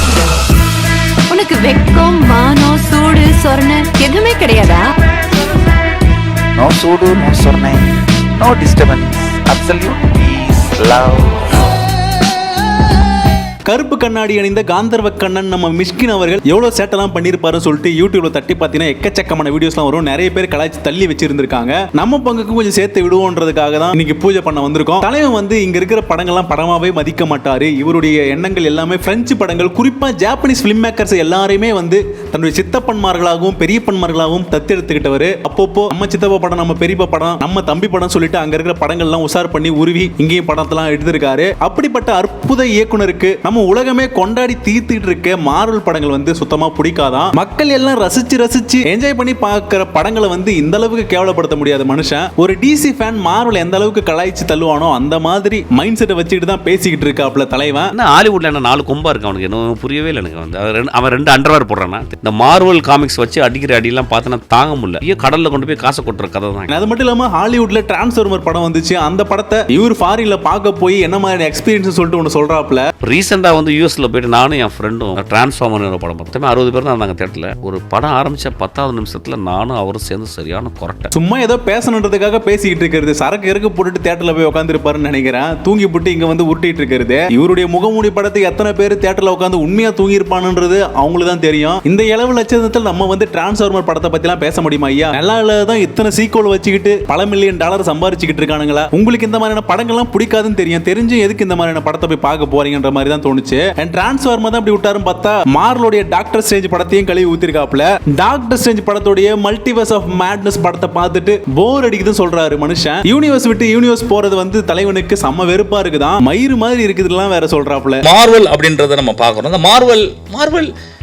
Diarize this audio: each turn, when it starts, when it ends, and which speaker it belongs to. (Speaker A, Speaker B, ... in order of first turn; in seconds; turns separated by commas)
Speaker A: 1.3-4.9, Speaker B: 6.6-11.4, Speaker C: 13.7-57.9, Speaker D: 57.9-66.7, Speaker C: 66.7-72.8, Speaker D: 73.0-81.1, Speaker C: 81.1-118.0, Speaker E: 118.0-120.7